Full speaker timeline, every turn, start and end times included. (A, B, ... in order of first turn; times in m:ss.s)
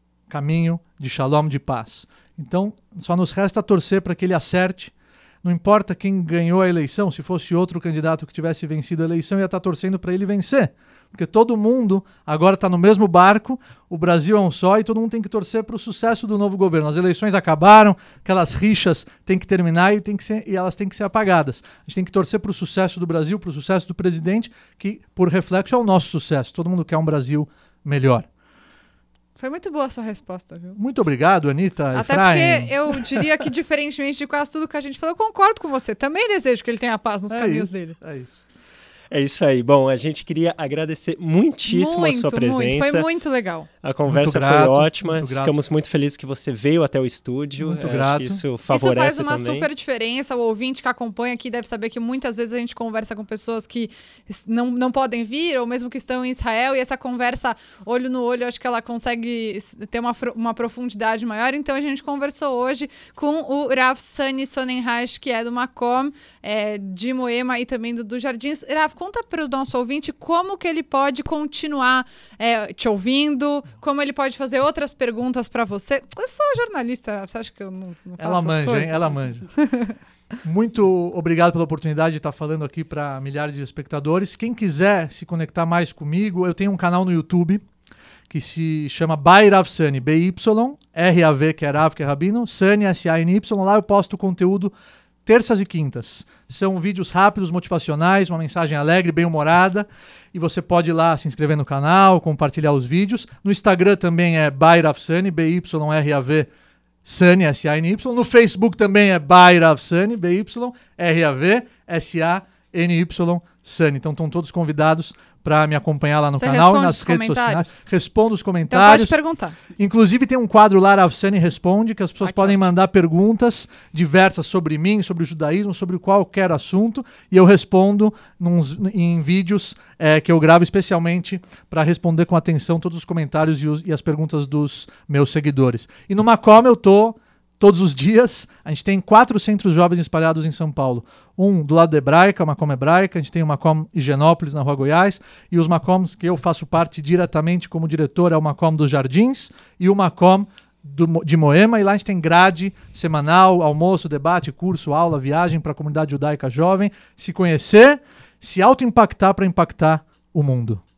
0:00.3-0:04.9 A
0:05.4-0:28.3 A
0:29.4-0:30.8 B
0:30.8-0:33.2 A
0:31.9-0:38.0 B
0:37.3-0:38.4 A
0:39.1-0:43.1 C
0:41.7-0:43.7 B
0:43.8-0:49.7 C
0:44.1-0:45.6 A
0:47.6-0:48.4 A
0:48.7-1:20.0 B
1:18.2-1:19.5 A
1:20.4-1:27.6 A
1:28.3-1:34.7 A
1:35.2-1:46.5 A
1:47.0-1:59.2 A
1:56.3-1:57.8 B
1:58.7-1:59.6 B
1:59.8-2:40.8 A
2:02.2-2:02.5 B